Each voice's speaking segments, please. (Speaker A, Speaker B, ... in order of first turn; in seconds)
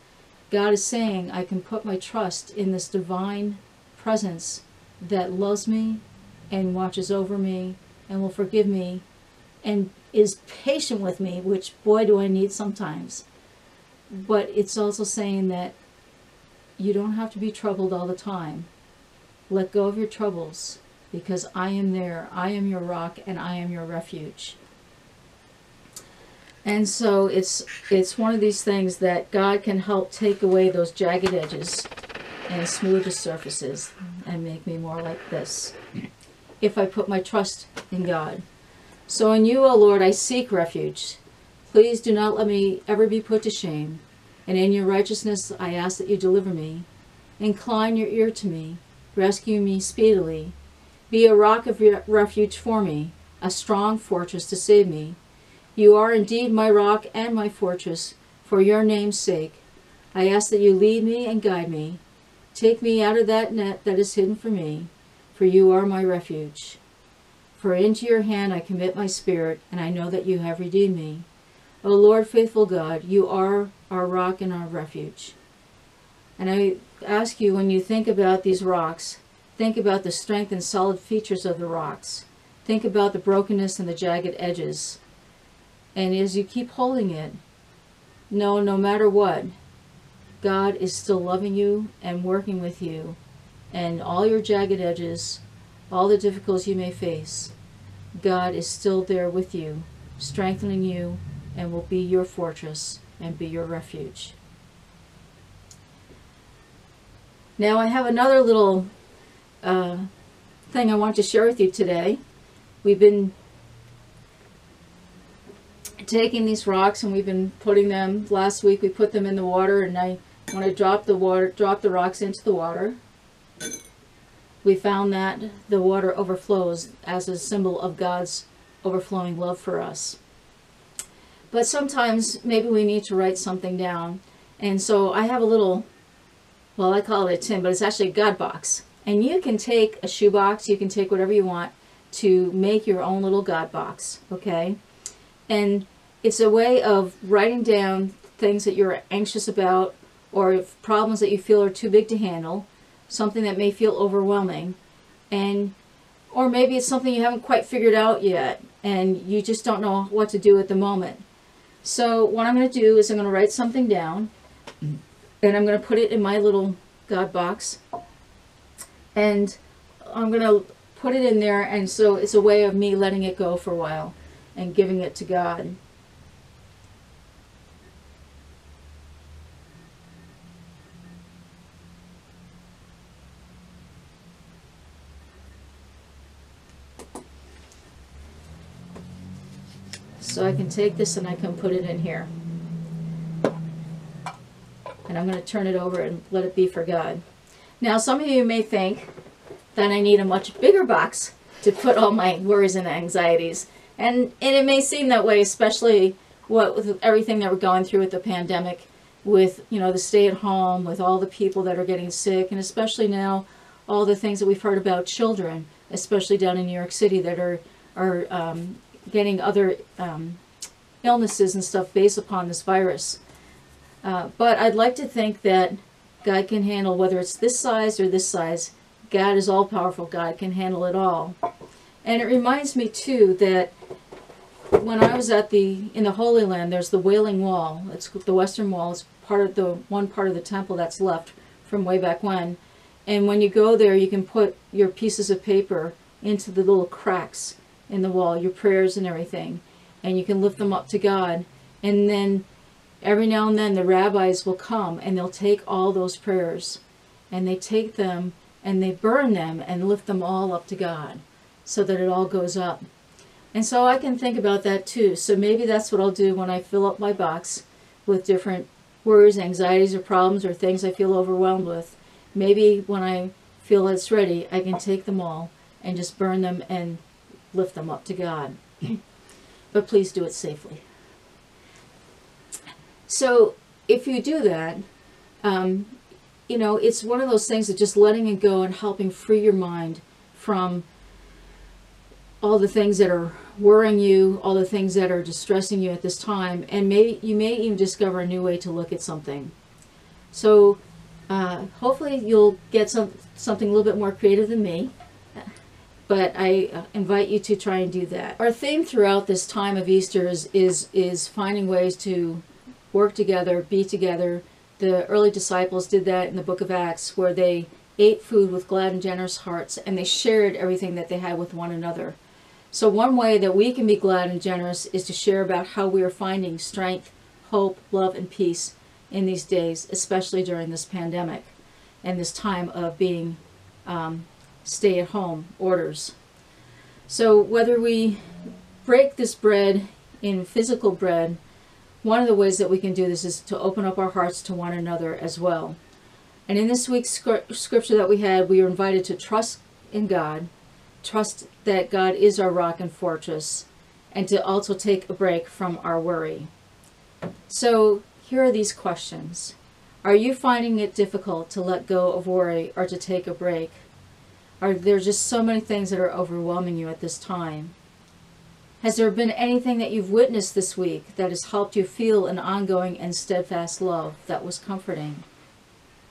Speaker A: 0.5-9.0, 9.6-13.2, 14.1-15.8, 16.8-18.7, 19.5-24.6, 26.6-31.9, 32.5-35.8, 36.6-38.4, 39.1-46.9, 47.4-50.5, 51.1-55.2, 55.8-59.6, 60.1-62.0, 62.5-66.8, 67.6-71.3, 71.8-75.4, 76.4-85.0, 86.0-87.4, 88.3-89.5, 90.4-93.2, 93.7-97.5, 98.2-104.4, 107.6-108.9, 109.6-110.1, 110.7-112.2, 112.8-113.3, 116.0-123.0, 124.6-130.2, 131.5-135.9, 136.8-144.8, 145.5-154.8, 155.3-155.7, 156.3-161.2, 161.8-164.3, 165.4-167.8, 169.2-175.8, 190.2-192.3, 195.1-197.2, 197.8-199.1, 199.8-220.4, 221.0-223.2, 224.0-231.4, 232.0-233.7, 234.7-252.4, 253.0-262.9, 263.5-279.0, 279.7-280.9, 283.1-284.8, 285.4-286.0, 286.5-290.9, 292.4-299.5, 300.3-305.5, 306.1-322.2, 322.7-336.1, 337.1-338.3, 338.8-341.4, 342.0-345.8, 346.5-350.5, 351.0-356.5, 357.5-363.9, 364.6-367.8, 368.8-375.2